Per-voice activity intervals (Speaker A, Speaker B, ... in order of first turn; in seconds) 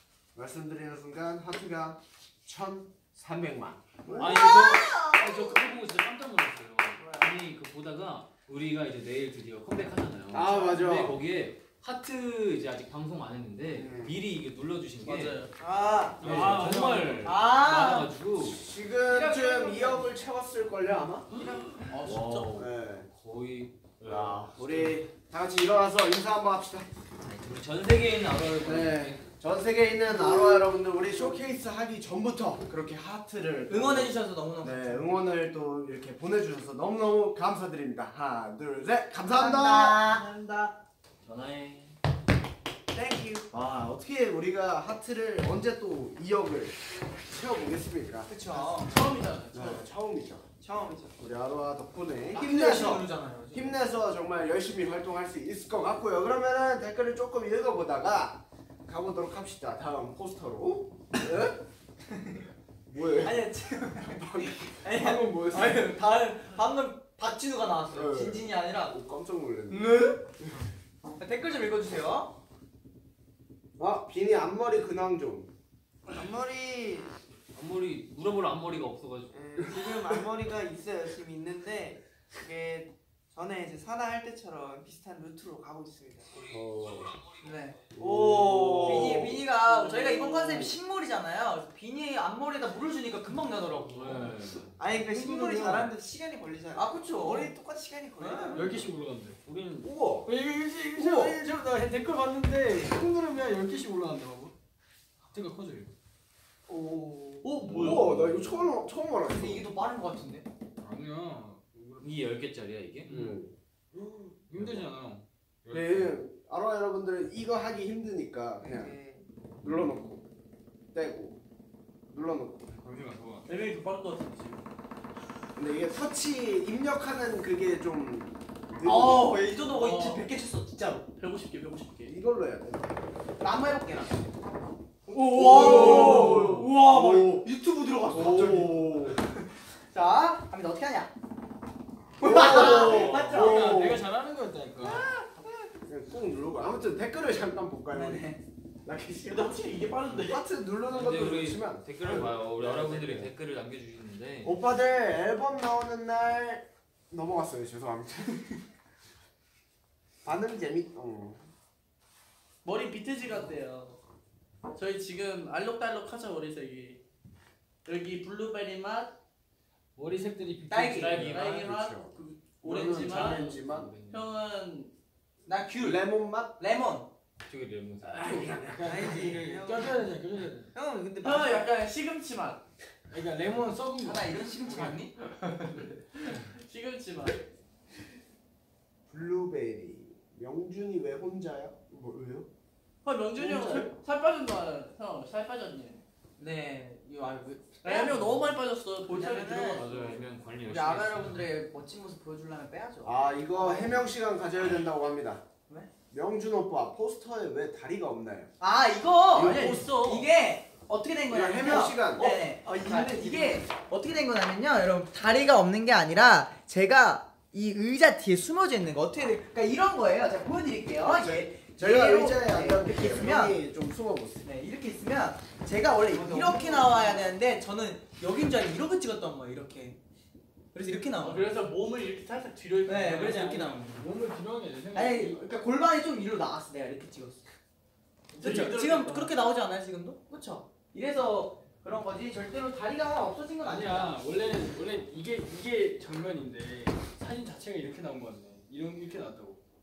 Speaker A: 0.3-4.1, 10.3-11.2, 13.7-14.2, 16.2-16.6, 18.4-21.3, 22.0-23.1, 24.0-26.9, 28.6-40.1, 43.5-48.3, 49.5-50.4, 51.2-61.5, 62.9-65.9, 67.9-70.5, 73.8-75.5, 86.5-87.1, 87.9-89.4, 99.8-100.3, 100.9-101.4, 107.7-109.7, 113.1-114.9, 115.7-118.9, 119.6-120.2, 120.9-121.4, 122.1-122.6, 125.5-129.4, 132.1-133.0, 135.3-137.5, 138.1-139.2, 142.2-144.1, 145.8-148.3, 148.8-149.6, 150.1-153.3, 154.4-158.6, 160.2-161.5, 171.3-173.9, 175.8-176.6, 178.0-179.4, 189.1-192.5, 193.4-193.9, 203.0-205.4, 206.1-208.5, 211.3-212.4, 221.0-224.4
Speaker B: 4.0-4.4, 7.0-7.3, 15.6-16.6, 40.3-40.7, 42.9-43.5, 50.6-51.2, 76.1-77.1, 79.3-86.5, 88.0-89.3, 94.8-98.8, 106.7-107.5, 118.6-119.2, 178.8-180.2, 212.3-213.6
Speaker C: 4.1-5.5, 17.2-18.1, 19.1-20.1, 33.7-35.1, 39.3-40.2, 48.3-49.0, 52.3-53.7, 63.2-68.9, 71.1-72.3, 87.4-87.8, 88.8-94.3, 95.0-95.8, 96.7-97.5, 98.2-98.7, 109.2-110.4, 128.8-131.0, 133.4-134.2, 135.1-138.6, 139.9-141.1, 142.2-143.8, 147.9-148.4, 170.7-171.2, 175.4-177.1, 180.8-181.7, 184.0-185.2, 196.4-198.2, 199.1-199.8, 200.6-204.0, 208.6-223.6, 224.4-230.0, 230.7-231.5, 232.9-234.1, 234.9-237.4, 238.4-244.2
Speaker D: 4.2-15.4, 16.2-18.6, 21.4-25.0, 27.2-29.2, 41.2-41.9, 77.5-79.4, 93.9-94.8, 99.4-99.9, 107.7-108.7, 112.0-113.1, 142.7-143.0, 150.9-154.6, 170.9-171.7, 172.6-174.2, 177.5-178.5, 199.8-201.4
Speaker E: 15.0-15.5, 21.4-22.6, 48.5-49.9, 89.5-90.7, 107.4-108.2, 123.5-124.6, 129.6-130.3, 131.1-132.2, 135.3-136.8, 137.9-138.7, 149.2-150.4, 162.6-164.0, 164.7-167.0, 167.8-169.1, 171.2-173.5, 174.1-174.9, 181.2-182.6, 185.4-187.4, 193.0-196.0, 197.8-200.2, 209.3-210.3, 231.2-233.5, 238.3-239.3
Speaker F: 16.2-17.4, 94.0-94.6, 98.5-99.4, 100.2-104.5, 105.2-105.9, 110.8-112.1, 113.0-113.4, 114.5-116.2, 122.7-123.5, 143.1-145.1, 169.9-171.5, 178.7-180.7, 183.1-185.0, 233.2-235.4, 243.6-249.6